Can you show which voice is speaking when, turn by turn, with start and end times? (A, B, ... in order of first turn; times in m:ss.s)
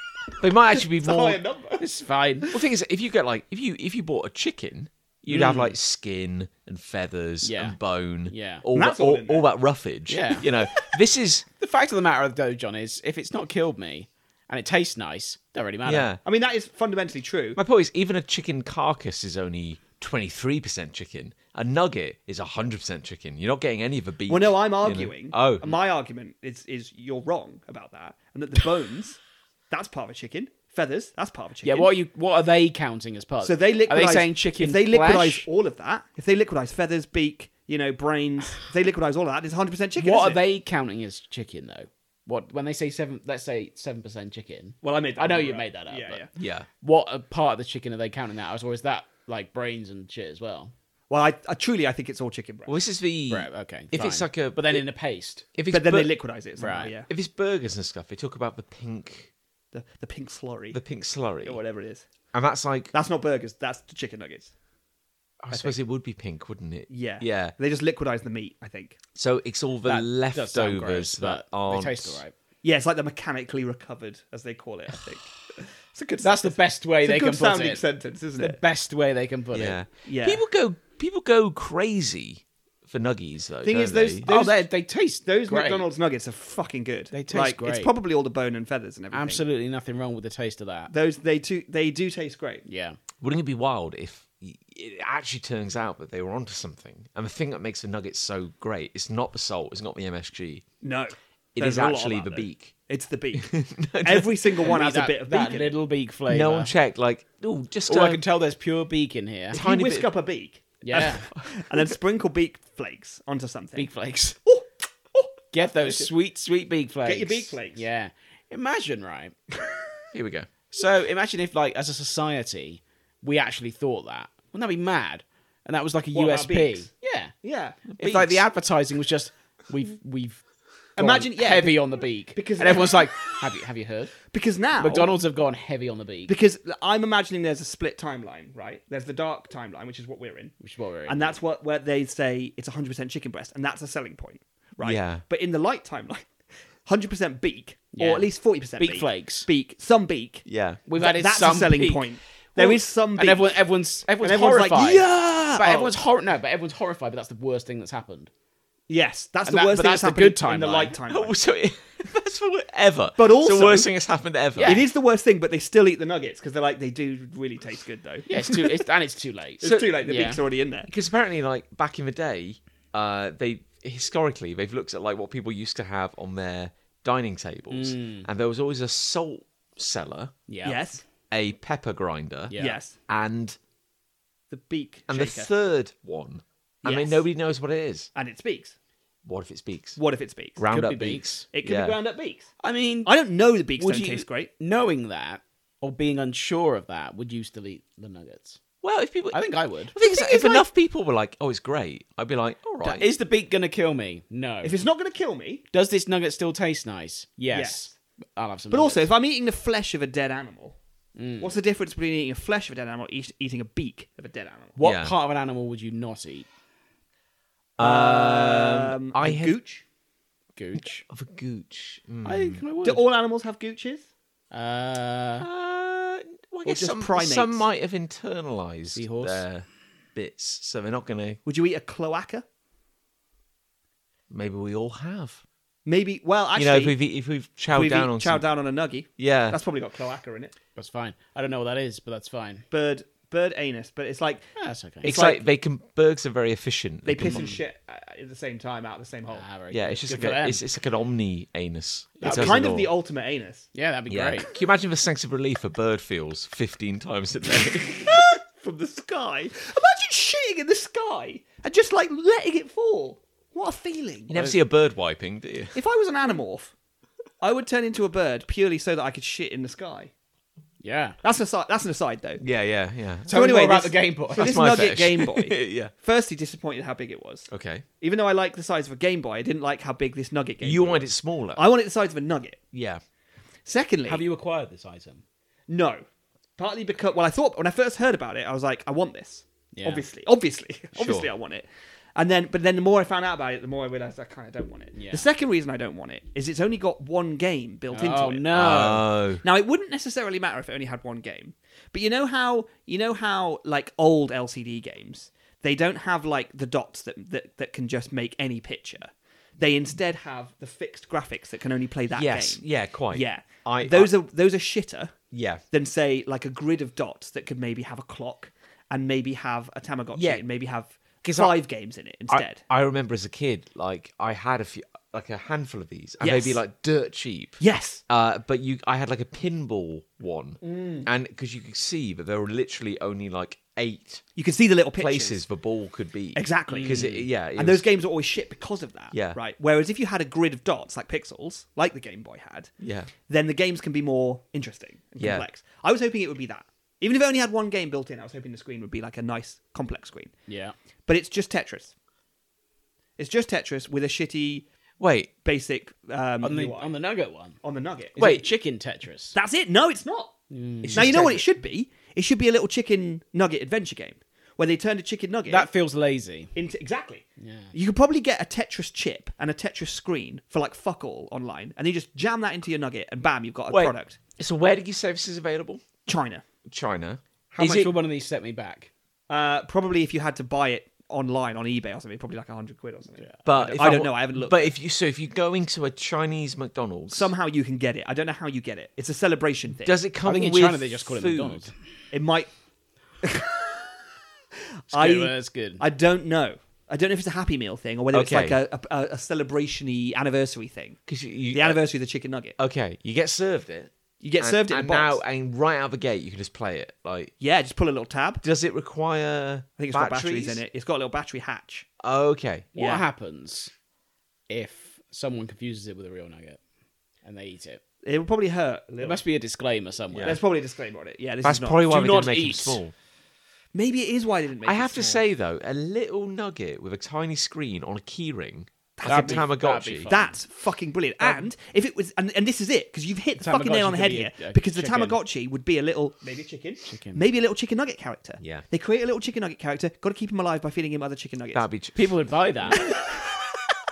0:00.4-0:01.4 A
0:00.7-0:01.9 B
0:01.8-0:02.6 C
0:02.5-0:11.5 A
0:05.3-0:05.7 C
0:07.4-0:07.8 C
0:08.3-0:08.6 C
0:08.8-0:09.5 B
0:10.1-0:10.5 C
0:11.6-0:16.1 C
0:15.8-0:16.2 A
0:16.2-0:17.6 B
0:17.6-0:25.8 A
0:24.3-0:31.9 B
0:31.6-0:35.5 C
0:33.4-0:40.4 B
0:40.0-0:46.3 C
0:44.8-0:46.3 B
0:46.4-0:46.7 A
0:46.8-0:50.7 C
0:51.1-0:52.8 B
0:52.7-0:54.8 A
0:53.3-0:55.5 C
0:55.6-0:56.1 A
0:55.7-0:57.1 B
0:56.6-0:56.9 C
0:57.1-0:59.3 A
0:59.7-1:00.8 B
1:00.7-1:01.6 A
1:01.4-1:02.1 B
1:02.3-1:02.9 A
1:02.9-1:04.5 B
1:05.4-1:07.6 A
1:06.9-1:09.0 B
1:09.1-1:12.2 A
1:09.8-1:12.3 C
1:12.6-1:18.6 B
1:16.2-1:17.8 C
1:18.4-1:19.8 C
1:19.5-1:24.3 A
1:20.0-1:20.4 B
1:23.6-1:24.6 B
1:24.3-1:25.9 C
1:25.2-1:29.4 B
1:27.1-1:27.9 C
1:29.1-1:30.9 C
1:30.9-1:32.6 B
1:32.7-1:33.0 C
1:33.2-1:40.6 A
1:40.8-1:43.5 B
1:41.6-1:42.7 A
1:43.3-1:44.7 A
1:44.0-1:45.8 B
1:44.6-1:46.7 C
1:46.3-1:48.2 A
1:47.9-1:49.6 C
1:49.5-1:50.1 A
1:49.5-1:53.9 B
1:50.8-1:51.3 C
1:53.8-1:54.4 C
1:54.4-1:56.1 B
1:55.5-1:59.4 C
1:57.1-1:57.8 B
2:00.1-2:00.5 A
2:00.7-2:07.3 C
2:06.1-2:06.9 B
2:07.4-2:07.9 B
2:07.9-2:08.4 A
2:08.0-2:10.4 C
2:11.0-2:13.1 B
2:11.0-2:14.2 C
2:14.3-2:15.2 B
2:14.8-2:16.4 C
2:16.3-2:26.3 B
2:20.6-2:21.4 C
2:24.8-2:25.2 A
2:26.8-2:30.4 B
2:27.9-2:28.3 C
2:28.8-2:29.5 C
2:30.5-2:30.8 A
2:30.9-2:32.0 C
2:31.0-2:33.6 B
2:32.6-2:38.3 C
2:34.2-2:36.0 B
2:38.9-2:41.4 B
2:39.5-2:41.0 C
2:41.1-2:44.8 A
2:43.2-2:43.9 B
2:44.6-2:44.8 C
2:44.6-2:48.8 B
2:48.3-2:50.4 C
2:49.6-2:50.9 B
2:49.6-2:49.9 A
2:50.9-3:00.3 A
2:57.7-2:58.3 C
3:00.5-3:00.8 C
3:00.6-3:01.0 B
3:01.3-3:02.6 A
3:02.5-3:02.8 C
3:02.6-3:03.0 B
3:03.1-3:03.6 A
3:04.5-3:05.5 B
3:05.1-3:08.1 A
3:06.8-3:07.2 B
3:08.1-3:08.8 B
3:09.2-3:10.0 A
3:10.0-3:10.6 B
3:10.6-3:12.0 A
3:10.7-3:11.4 C
3:11.5-3:12.5 B
3:12.6-3:13.1 C
3:13.0-3:14.5 B
3:13.8-3:18.6 C
3:18.8-3:19.4 A
3:19.3-3:20.0 C
3:19.9-3:23.1 A
3:20.0-3:20.6 B
3:22.8-3:24.8 C
3:24.6-3:25.6 B
3:25.7-3:29.1 C
3:27.5-3:27.9 B
3:28.7-3:30.8 B
3:31.2-3:31.6 C
3:31.4-3:34.8 B
3:34.8-3:36.5 C
3:34.8-3:35.1 A
3:37.8-3:39.6 A
3:37.8-3:39.8 B
3:40.6-3:41.0 C
3:41.1-3:42.6 A
3:42.2-3:43.0 C
3:42.8-3:44.1 B
3:44.5-3:45.5 C
3:45.4-3:51.4 A
3:46.6-3:47.6 B
3:48.9-3:49.4 C
3:51.5-3:52.4 B
3:54.3-3:55.4 A
3:55.9-3:57.0 B
3:56.6-3:58.4 A
3:57.7-4:00.5 B
3:59.2-3:59.6 A
4:00.8-4:02.6 C
4:02.7-4:04.5 B
4:04.6-4:05.2 C
4:05.0-4:05.4 B
4:05.0-4:07.5 A
4:07.1-4:09.5 B
4:07.3-4:07.6 C
4:09.3-4:10.6 C
4:09.7-4:12.9 A
4:12.2-4:12.6 C
4:12.2-4:13.7 B
4:13.7-4:14.5 C
4:14.1-4:18.3 A
4:18.0-4:24.5 B
4:24.3-4:25.8 A
4:25.8-4:26.7 B
4:27.4-4:30.1 B
4:30.8-4:31.2 C
4:31.2-4:32.4 B
4:32.4-4:33.3 A
4:33.3-4:34.6 C
4:33.3-4:37.5 B
4:34.4-4:35.9 A
4:37.5-4:37.8 A
4:38.0-4:42.6 B
4:40.6-4:41.6 A
4:42.7-4:43.0 A
4:43.7-4:44.2 B
4:44.1-4:45.2 C
4:45.7-4:46.0 B
4:46.6-5:15.2 B
4:49.8-4:50.0 C
4:51.0-4:51.3 A
4:54.9-4:55.3 C
4:57.9-4:59.0 C
4:58.5-4:59.4 A
5:12.1-5:14.1 A
5:15.3-5:15.6 A
5:15.7-5:22.6 B
5:20.1-5:20.4 A
5:21.2-5:21.5 A
5:22.3-5:34.2 A
5:26.2-5:26.6 B
5:27.6-5:28.0 B
5:30.6-5:31.1 B
5:34.4-5:35.4 B
5:35.0-5:37.9 A
5:36.4-5:42.7 B
5:36.7-5:37.3 C
5:39.1-5:39.4 A
5:42.8-5:43.1 A
5:43.3-5:50.3 B
5:45.2-5:45.4 A
5:50.5-5:50.8 C
5:51.1-5:51.9 B
5:53.2-5:54.7 B
5:55.0-5:55.3 A
5:55.4-5:56.9 B
5:56.4-5:57.6 C
5:57.6-5:58.2 B
5:58.2-5:59.4 C
5:58.2-5:58.5 A
5:59.4-6:00.4 B
6:00.5-6:01.4 C
6:00.8-6:01.4 A
6:00.9-6:05.7 B
6:05.5-6:06.5 C
6:06.6-6:14.2 B
6:07.4-6:07.7 C
6:13.7-6:15.8 A
6:16.1-6:16.4 B
6:16.7-6:17.9 A
6:17.6-6:18.9 C
6:19.3-6:24.7 B
6:23.2-6:23.8 C
6:23.4-6:27.3 A
6:27.1-6:30.0 B
6:29.8-6:31.7 A
6:30.2-6:31.7 C
6:32.1-6:32.5 B
6:33.2-6:33.9 B
6:34.9-6:35.8 C
6:34.9-6:41.0 B
6:38.1-6:38.6 A
6:41.1-6:41.8 A
6:41.5-6:42.6 B
6:42.6-6:47.3 A
6:44.2-6:45.2 B
6:47.4-6:48.4 B
6:48.4-6:50.6 A
6:49.8-6:51.9 B
6:52.0-6:52.7 A
6:52.8-6:53.0 B
6:52.8-6:53.7 C
6:54.5-6:56.6 C
6:57.2-6:57.8 C
6:58.0-6:59.2 B
6:59.0-7:00.4 C
7:00.1-7:00.4 A
7:00.2-7:02.3 B
7:01.4-7:02.9 A
7:01.9-7:02.8 C
7:03.7-7:05.2 B
7:04.6-7:10.1 A
7:09.0-7:09.6 B
7:09.0-7:10.4 C
7:10.1-7:21.7 B
7:11.2-7:11.5 C
7:13.4-7:15.2 C
7:16.9-7:17.2 C
7:18.4-7:18.6 A
7:21.5-7:22.1 A
7:22.0-7:22.9 C
7:22.7-7:23.6 B